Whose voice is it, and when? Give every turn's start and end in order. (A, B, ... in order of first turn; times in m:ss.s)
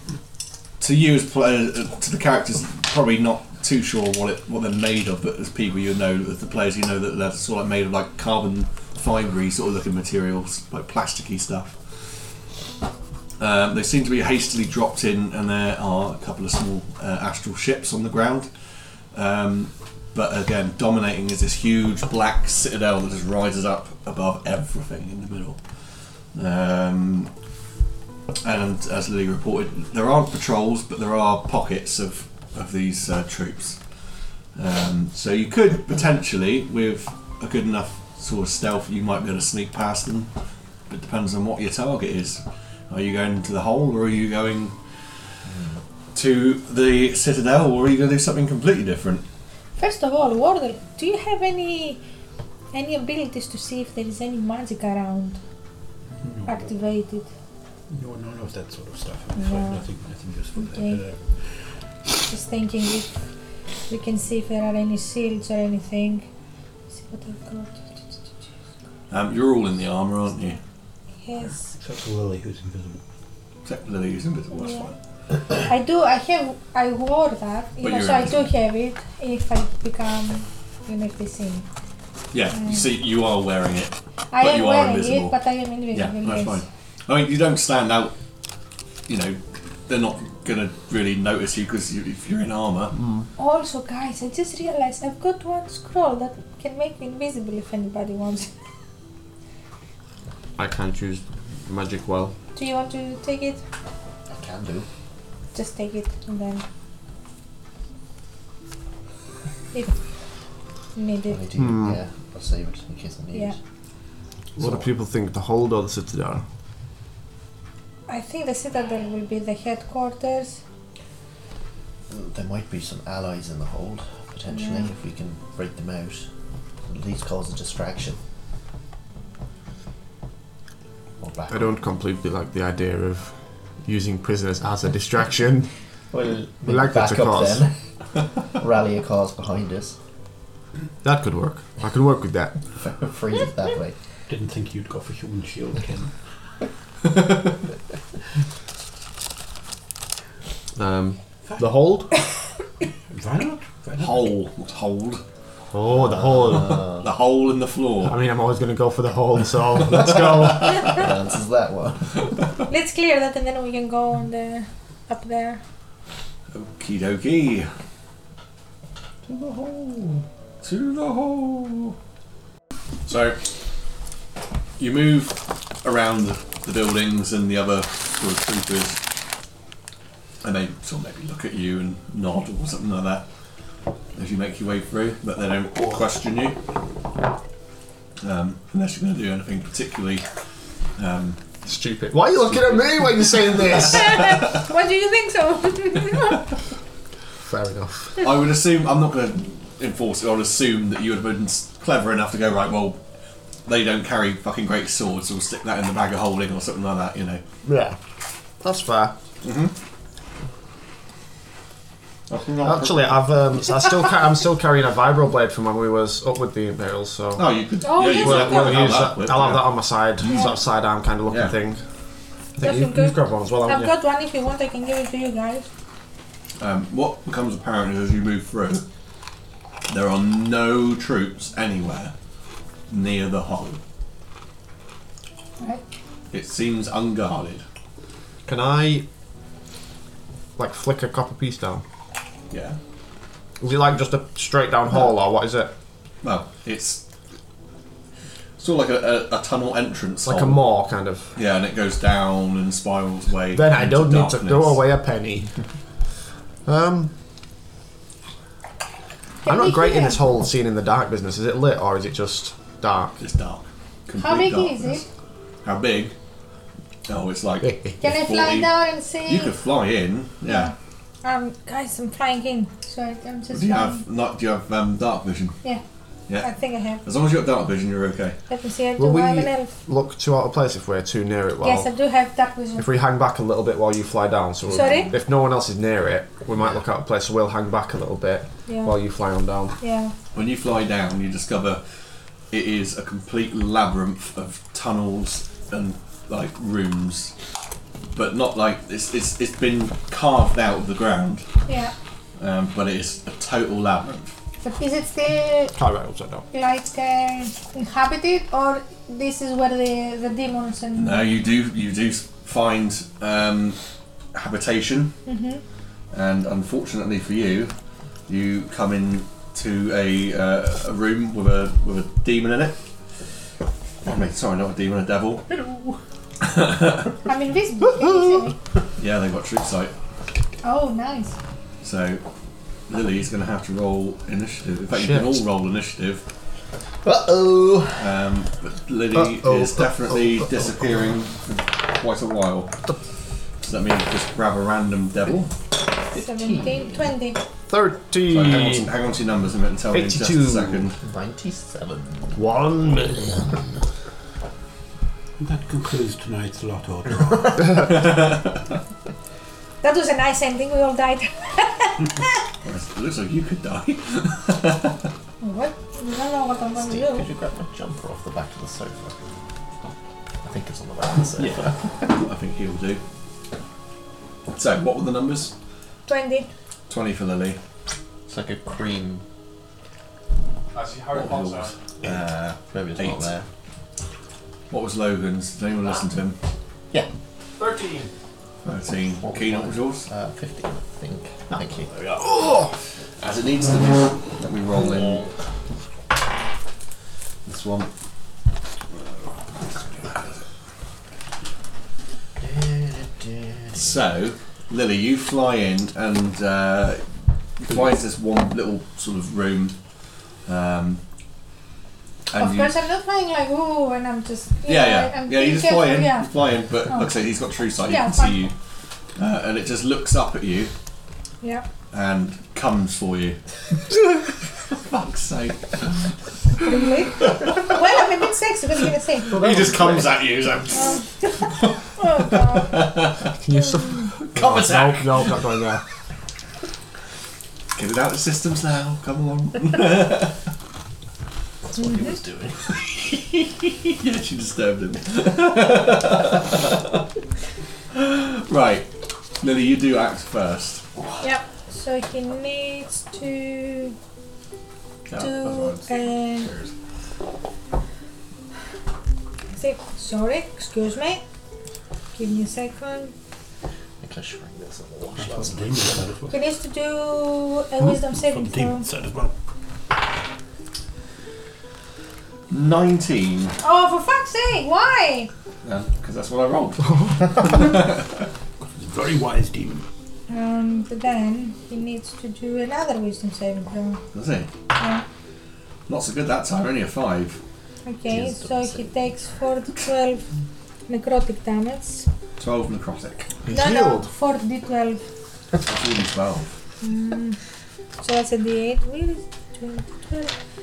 0:00.8-0:11.8 A
0:13.4-0:18.5 A
0:19.1-0:25.6 A
0:26.3-0:27.3 A
0:28.4-0:33.8 A
0:34.6-0:40.3 A
0:40.9-0:44.8 A
0:45.5-0:45.8 B
0:46.1-0:49.2 A
0:49.8-0:52.0 C
0:52.7-0:55.4 C
0:56.2-0:56.7 D
0:56.5-0:57.3 C
0:57.9-1:01.3 D
0:59.4-0:59.8 C
1:00.6-1:01.0 C
1:02.2-1:03.2 C
1:03.9-1:06.3 C
1:06.9-1:08.3 C
1:09.1-1:10.6 A
1:11.2-1:11.7 C
1:11.8-1:13.0 D
1:13.6-1:14.9 A
1:14.5-1:14.9 C
1:15.5-1:21.7 C
1:17.8-1:18.5 A
1:22.3-1:25.4 A
1:22.6-1:22.8 C
1:24.3-1:26.6 C
1:25.9-1:28.2 A
1:29.1-1:33.0 A
1:33.0-1:33.3 E
1:33.4-1:38.5 C
1:40.6-1:42.3 E
1:42.6-1:43.6 C
1:44.3-1:44.9 B
1:45.5-1:46.6 C
1:51.0-1:51.4 C
1:51.3-1:53.6 B
1:51.6-1:52.0 E
1:54.6-1:56.4 E
1:58.1-2:00.6 C
2:02.1-2:06.2 B
2:04.5-2:04.9 C
2:06.9-2:08.2 B
2:11.2-2:11.7 B
2:11.5-2:15.7 E
2:16.1-2:17.7 B
2:16.6-2:17.7 E
2:18.6-2:20.0 B
2:21.0-2:22.6 E
2:22.7-2:24.0 B
2:24.3-2:26.1 D
2:30.8-2:32.1 E
2:33.1-2:34.3 D
2:34.0-2:35.2 A
2:35.7-2:36.9 E
2:36.0-2:37.1 B
2:36.8-2:38.2 A
2:38.0-2:41.0 E
2:40.2-2:41.0 A
2:40.9-2:42.2 B
2:42.7-2:45.6 C
2:46.5-2:47.7 A
2:49.3-2:52.0 A
2:53.1-2:53.4 A
2:54.8-2:59.0 A
3:00.4-3:03.2 A
3:04.2-3:06.6 A
3:08.2-3:10.2 A
3:11.0-3:11.4 A
3:11.6-3:14.4 E
3:13.7-3:16.5 C
3:17.4-3:18.2 E
3:18.2-3:23.0 A
3:23.7-3:27.4 A
3:27.6-3:28.0 E
3:28.6-3:29.2 E
3:29.4-3:29.7 A
3:32.3-3:33.1 A
3:32.6-3:37.5 E
3:37.4-3:39.8 A
3:37.8-3:39.0 C
3:38.1-3:41.8 E
3:40.3-3:40.6 C
3:41.3-3:41.6 A
3:42.6-3:43.9 E
3:42.6-3:45.7 C
3:46.6-3:48.8 A
3:49.9-3:52.1 A
3:52.9-3:53.8 A
3:56.3-3:57.6 A
3:58.5-3:59.1 E
4:00.6-4:01.8 E
4:02.5-4:02.8 A
4:03.6-4:05.7 E
4:06.2-4:07.0 A
4:08.6-4:10.6 A
4:10.3-4:11.3 E
4:11.4-4:14.8 A
4:13.5-4:15.5 E
4:16.7-4:17.1 E
4:19.4-4:20.3 C
4:19.4-4:23.2 E
4:23.2-4:25.0 A
4:24.2-4:25.1 C
4:25.6-4:26.1 A
4:27.1-4:28.7 A
4:27.6-4:27.9 E
4:28.0-4:29.6 C
4:29.3-4:30.7 A
4:30.5-4:30.7 C
4:31.2-4:34.0 C
4:33.5-4:35.6 A
4:36.4-4:37.0 C
4:37.0-4:38.4 A
4:38.5-4:39.7 C
4:39.0-4:41.9 E
4:41.6-4:42.9 C
4:42.8-4:49.8 E
4:44.7-4:45.1 A
4:44.7-4:45.1 C
4:48.7-4:49.0 C
4:49.8-4:50.1 C
4:50.3-4:51.8 A
4:52.5-4:57.3 A
4:58.1-5:01.4 A
5:01.7-5:01.9 C
5:02.4-5:04.3 A
5:04.6-5:05.8 C
5:05.8-5:06.4 E
5:06.5-5:11.4 C
5:11.0-5:13.8 A
5:14.3-5:15.1 A
5:15.3-5:15.6 C
5:16.1-5:17.7 A
5:18.3-5:22.8 A
5:24.0-5:25.6 A
5:26.4-5:27.1 A
5:27.2-5:28.6 C
5:29.0-5:29.9 A
5:30.6-5:31.4 C
5:31.8-5:32.2 A
5:32.9-5:36.2 A
5:34.9-5:35.4 E
5:37.0-5:38.1 B
5:38.0-5:42.7 A
5:39.2-5:40.6 E
5:43.6-5:45.5 A
5:46.1-5:47.1 B
5:46.1-5:47.4 C
5:47.7-5:48.9 E
5:48.3-5:51.0 A
5:49.9-5:50.9 E
5:51.0-5:52.4 B
5:52.4-5:53.6 E
5:55.4-5:57.8 D
5:57.8-5:58.6 A
5:59.8-6:02.4 C
6:02.6-6:05.0 A
6:05.4-6:07.3 C
6:06.8-6:09.3 B
6:10.4-6:11.8 B
6:11.4-6:13.0 A
6:14.5-6:15.5 A
6:16.1-6:16.5 C
6:16.9-6:17.6 A
6:18.3-6:19.2 B
6:20.7-6:21.8 E
6:21.1-6:22.2 A
6:22.0-6:23.5 B
6:23.0-6:23.3 A
6:24.7-6:26.4 A
6:27.6-6:28.1 E
6:28.6-6:30.1 A
6:29.2-6:32.1 B
6:32.1-6:32.7 E
6:33.2-6:35.3 A
6:37.5-6:37.9 A
6:39.7-6:40.4 A
6:42.4-6:43.9 B
6:43.7-6:47.0 A
6:47.6-6:49.8 A
6:50.5-6:51.0 A
6:52.3-6:52.8 A
6:52.3-6:56.3 C
6:54.7-6:58.5 A
6:57.8-6:58.5 C
6:59.2-7:00.7 A
7:01.9-7:03.4 A
7:04.7-7:06.1 A
7:06.6-7:09.4 C
7:07.2-7:07.7 A
7:09.3-7:11.7 A
7:09.3-7:10.0 E
7:10.7-7:12.9 C
7:12.4-7:13.3 A
7:13.4-7:15.8 E
7:13.5-7:14.0 C
7:14.3-7:15.5 A
7:17.8-7:20.4 A
7:21.7-7:22.7 B
7:21.8-7:22.2 C
7:23.2-7:26.7 A
7:27.9-7:28.9 A
7:29.4-7:30.9 A
7:31.2-7:34.0 C
7:35.1-7:36.7 A
7:35.2-7:36.5 C
7:39.5-7:41.2 C
7:42.2-7:43.1 C
7:44.0-7:46.0 B
7:45.2-7:46.4 D
7:46.3-7:48.9 C
7:47.8-7:49.3 D
7:52.5-7:53.6 A
7:53.6-7:55.3 C
7:55.6-7:58.3 A
7:58.6-7:59.9 D
8:00.3-8:04.0 C
8:04.1-8:04.5 A
8:04.8-8:05.0 C
8:05.9-8:07.4 A
8:07.8-8:10.3 C
8:08.1-8:08.9 B
8:10.9-8:12.1 C
8:12.4-8:13.3 A
8:13.4-8:14.1 E
8:13.5-8:15.0 C
8:15.6-8:16.5 A
8:16.8-8:17.4 C
8:18.0-8:20.3 C